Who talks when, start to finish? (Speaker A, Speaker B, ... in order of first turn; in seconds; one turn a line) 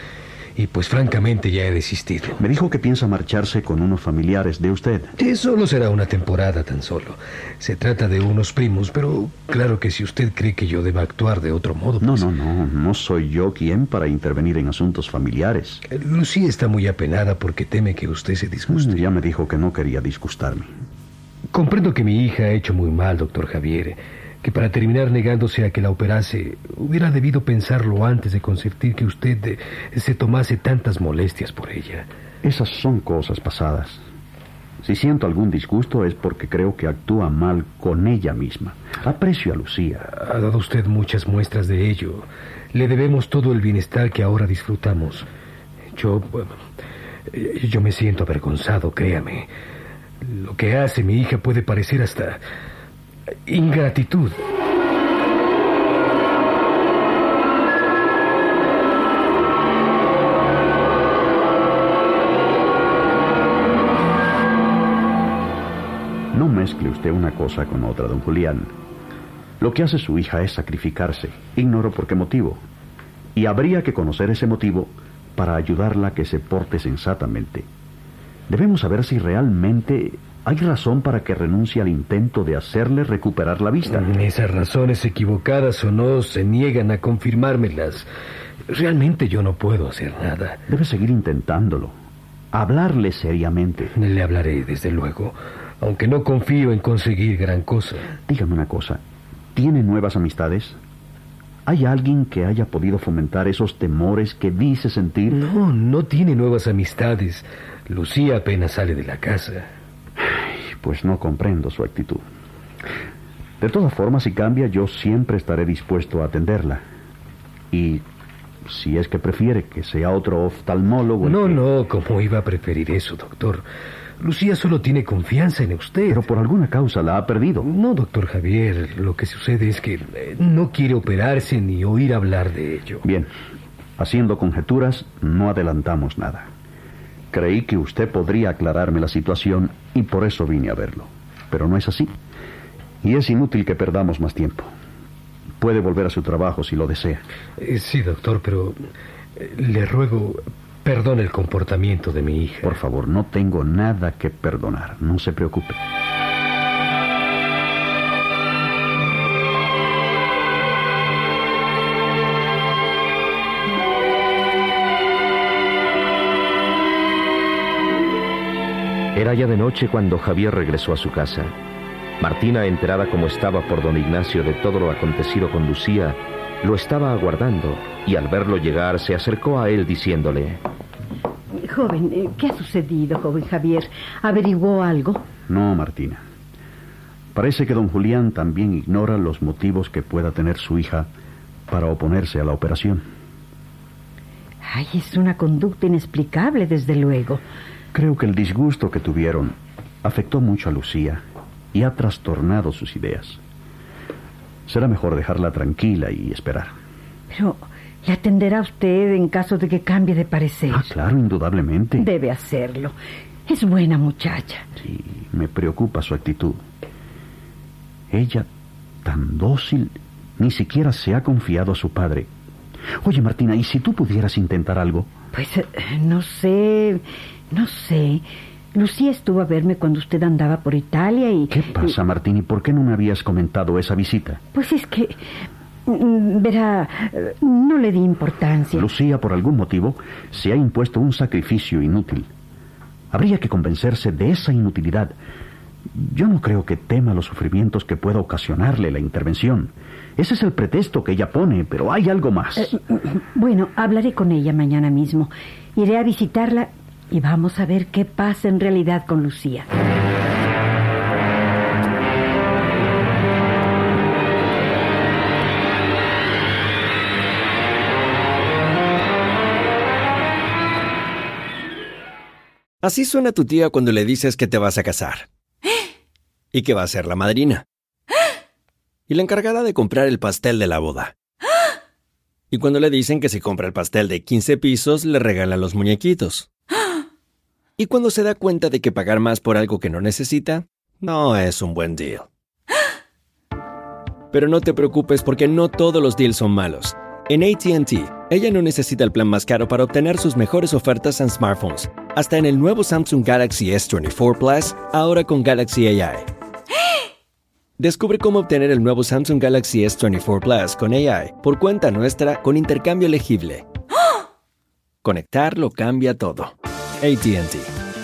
Speaker A: 0.6-2.4
Speaker B: 2.4-5.1
Speaker A: 5.2-12.3
Speaker B: 12.0-15.8
Speaker A: 15.9-19.0
Speaker B: 18.7-20.7
Speaker A: 21.5-32.1
Speaker B: 32.4-34.0
Speaker B: 34.8-40.1
Speaker A: 40.0-45.3
Speaker A: 45.9-46.5
Speaker A: 47.3-49.5
Speaker A: 50.2-52.4
Speaker A: 53.5-54.4
Speaker B: 66.3-68.7
Speaker B: 69.6-72.6
Speaker B: 73.3-77.7
Speaker B: 78.5-84.1
Speaker A: 83.9-88.1
Speaker A: 88.7-90.6
Speaker B: 90.7-91.9
Speaker B: 92.5-93.9
Speaker A: 93.9-98.2
Speaker B: 98.3-99.0
Speaker B: 99.5-100.8
Speaker B: 101.7-105.4
Speaker A: 105.3-109.7
Speaker B: 110.2-112.2
Speaker B: 113.6-116.8
Speaker B: 117.7-118.0
Speaker B: 118.6-121.6
Speaker A: 121.2-123.6
Speaker A: 124.2-126.2
Speaker B: 126.1-127.7
Speaker A: 127.6-133.0
Speaker B: 133.0-133.3
Speaker B: 134.0-136.5
Speaker B: 137.3-142.1
Speaker B: 143.0-144.7
Speaker B: 145.6-147.2
Speaker A: 147.6-148.8
Speaker A: 149.3-152.8
Speaker B: 152.6-155.8
Speaker C: 169.1-171.5
Speaker C: 172.2-180.6
Speaker D: 181.6-185.3
Speaker B: 185.5-186.2
Speaker B: 187.3-191.1
Speaker B: 191.7-193.1
Speaker D: 194.7-197.4
Speaker B: 197.9-203.4
Speaker B: 204.7-206.7
Speaker D: 207.3-210.9
Speaker B: 210.7-212.1
Speaker D: 212.0-212.9
Speaker D: 213.5-214.7
Speaker B: 214.8-216.6
Speaker B: 218.1-218.5
Speaker B: 219.0-222.3
Speaker B: 223.0-225.1
Speaker D: 225.3-231.9
Speaker B: 231.5-234.4
Speaker D: 234.5-235.3
Speaker D: 235.9-238.9
Speaker B: 238.7-242.3
Speaker B: 243.1-245.2
Speaker B: 245.9-252.8
Speaker D: 252.6-259.7
Speaker E: 272.8-275.3
Speaker E: 276.5-277.6
Speaker E: 279.1-281.1
Speaker E: 282.5-286.5
Speaker E: 287.8-292.3
Speaker E: 294.3-306.3
Speaker E: 307.8-313.7
Speaker E: 315.0-317.7